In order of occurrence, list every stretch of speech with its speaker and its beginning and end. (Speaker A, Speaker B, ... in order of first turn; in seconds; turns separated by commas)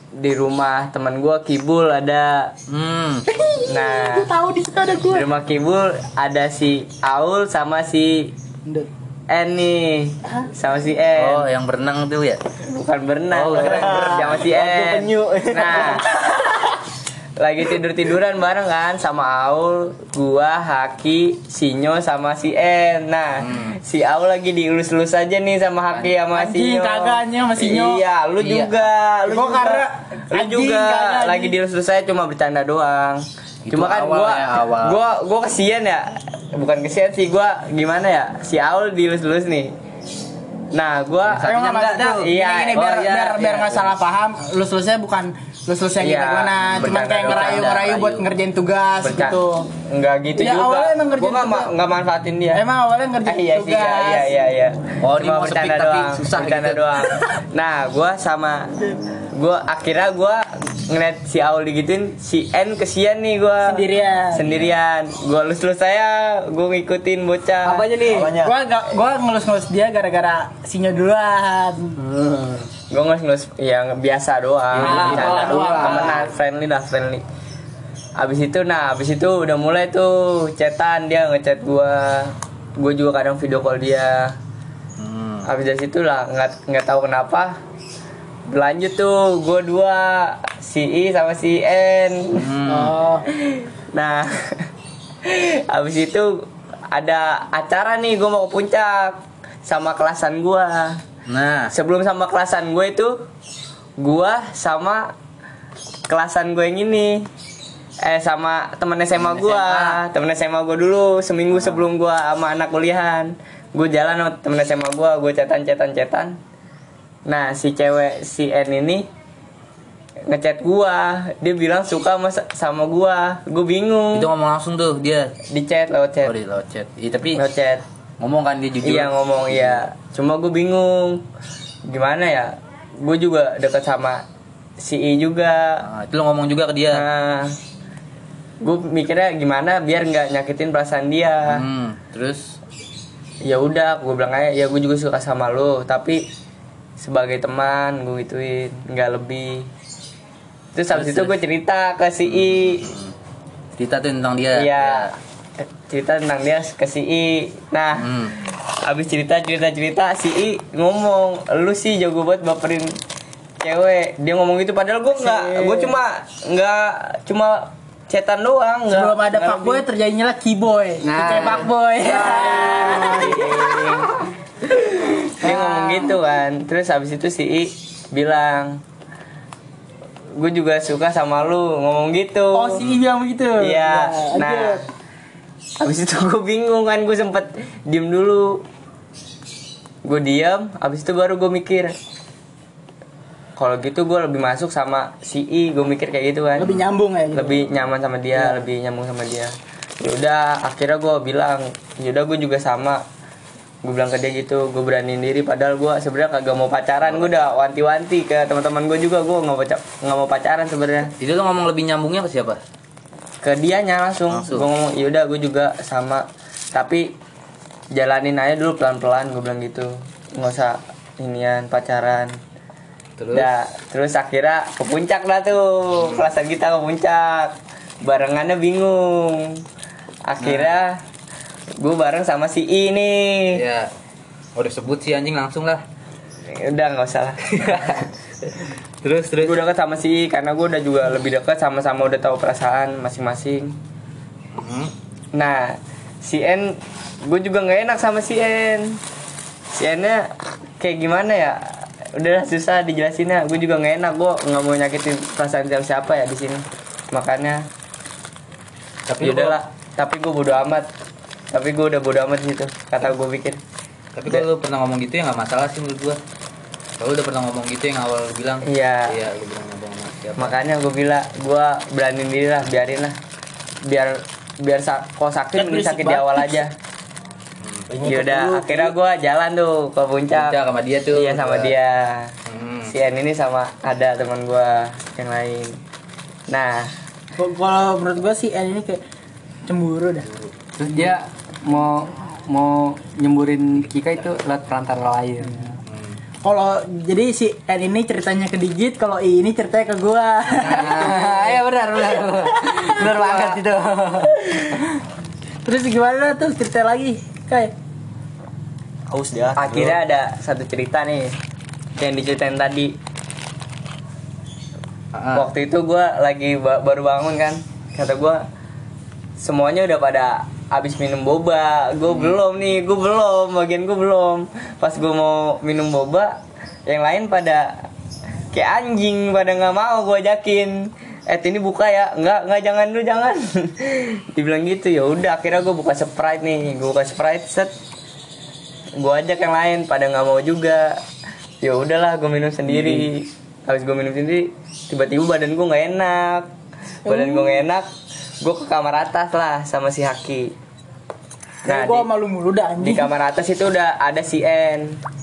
Speaker A: 0.1-2.5, Speaker B: 2.7-3.2, Speaker C: 3.3-5.3, Speaker A: 3.7-4.3, Speaker A: 5.1-8.3, Speaker A: 9.3-11.5, Speaker B: 11.2-12.4, Speaker A: 12.7-16.1, Speaker B: 13.3-14.2, Speaker D: 13.5-16.3, Speaker A: 17.4-39.7, Speaker B: 23.4-23.8, Speaker C: 26.3-28.0, Speaker B: 28.4-28.8, Speaker C: 29.3-31.6, Speaker B: 33.6-35.0, Speaker A: 40.7-42.9, Speaker C: 41.3-49.7, Speaker B: 42.7-43.9, Speaker A: 46.0-47.9, Speaker B: 46.7-48.3, Speaker A: 49.0-52.6, Speaker C: 50.4-51.7, Speaker C: 52.5-54.4, Speaker A: 53.3-58.7, Speaker B: 55.0-57.3, Speaker A: 59.3-68.0, Speaker C: 63.6-64.4, Speaker B: 64.5-64.7, Speaker E: 67.7-68.3, Speaker C: 67.8-72.0, Speaker D: 68.0-68.6, Speaker B: 72.0-72.7, Speaker A: 72.9-77.2, Speaker B: 74.7-75.8, Speaker E: 74.8-76.3, Speaker C: 74.8-76.1, Speaker A: 78.2-84.4, Speaker B: 85.0-85.5, Speaker A: 85.5-87.6, Speaker A: 88.5-92.5, Speaker B: 92.3-93.0, Speaker C: 92.7-93.2, Speaker A: 93.5-94.7, Speaker A: 95.2-101.0, Speaker B: 101.3-101.7, Speaker A: 101.7-103.2, Speaker A: 104.0-105.1, Speaker A: 106.1-107.3, Speaker A: 108.0-116.4, Speaker B: 109.2-110.0, Speaker A: 117.3-119.1, Speaker A: 120.3-124.3, Speaker B: 124.1-125.3, Speaker A: 125.5-126.3, Speaker B: 126.2-127.4, Speaker A: 127.4-127.8, Speaker B: 128.2-129.9, Speaker A: 128.8-131.2, Speaker A: 131.9-134.2, Speaker A: 134.8-135.8, Speaker B: 135.8-137.1, Speaker A: 136.9-137.6, Speaker A: 138.6-141.6, Speaker B: 141.5-142.6, Speaker A: 143.4-146.2, Speaker A: 147.0-149.7, Speaker A: 150.8-152.9, Speaker B: 150.9-151.3, Speaker B: 152.3-153.1, Speaker B: 153.8-155.1, Speaker A: 154.5-162.9, Speaker B: 158.0-158.3, Speaker A: 163.6-169.8, Speaker C: 165.2-165.9, Speaker C: 168.9-173.7, Speaker E: 171.0-173.3, Speaker A: 172.5-174.1, Speaker A: 175.2-178.8, Speaker C: 175.2-176.2, Speaker A: 180.3-182.9, Speaker C: 182.5-184.8, Speaker A: 183.6-184.8, Speaker A: 185.8-188.6, Speaker A: 190.1-191.9, Speaker A: 193.6-196.7, Speaker C: 196.6-197.7, Speaker A: 197.3-203.0, Speaker C: 198.4-198.6, Speaker A: 203.8-211.1, Speaker B: 211.2-212.6, Speaker A: 213.4-217.1, Speaker B: 214.3-214.7, Speaker A: 217.9-222.3, Speaker B: 223.2-223.5, Speaker A: 223.3-229.6, Speaker B: 226.0-226.3, Speaker A: 230.2-231.0, Speaker B: 230.4-230.7, Speaker A: 231.8-233.6, Speaker B: 233.5-233.9, Speaker B: 234.6-235.8, Speaker A: 236.5-238.1, Speaker B: 237.6-238.0, Speaker B: 239.0-239.6, Speaker A: 239.4-243.8, Speaker B: 244.6-244.9, Speaker A: 245.3-249.0, Speaker A: 249.7-250.3, Speaker A: 250.8-257.6, Speaker B: 259.1-259.6, Speaker A: 259.2-260.9, Speaker A: 261.5-263.6, Speaker B: 264.2-266.2, Speaker B: 267.0-270.6, Speaker A: 268.6-269.1, Speaker A: 270.4-273.2, Speaker A: 273.9-276.7, Speaker C: 275.5-276.6, Speaker D: 277.9-278.9, Speaker A: 278.0-280.6, Speaker B: 280.3-281.8, Speaker A: 281.1-282.3, Speaker B: 282.5-282.9, Speaker A: 282.9-285.8, Speaker A: 286.5-286.9, Speaker C: 287.4-289.0, Speaker C: 289.7-290.3, Speaker B: 290.3-291.1, Speaker E: 290.8-295.7, Speaker B: 295.9-296.1, Speaker C: 296.4-301.6, Speaker E: 300.6-304.4, Speaker C: 302.6-304.8, Speaker C: 305.6-307.7, Speaker D: 309.1-310.0, Speaker A: 309.6-311.4, Speaker A: 312.0-313.0, Speaker B: 315.1-315.5, Speaker A: 315.3-318.4, Speaker A: 319.4-327.9, Speaker A: 328.5-337.7, Speaker A: 339.0-341.0, Speaker A: 341.6-346.5, Speaker B: 342.7-343.0, Speaker C: 347.1-347.6, Speaker A: 347.1-347.9, Speaker A: 348.4-350.5, Speaker C: 351.6-353.1, Speaker A: 351.7-352.1, Speaker A: 352.8-355.0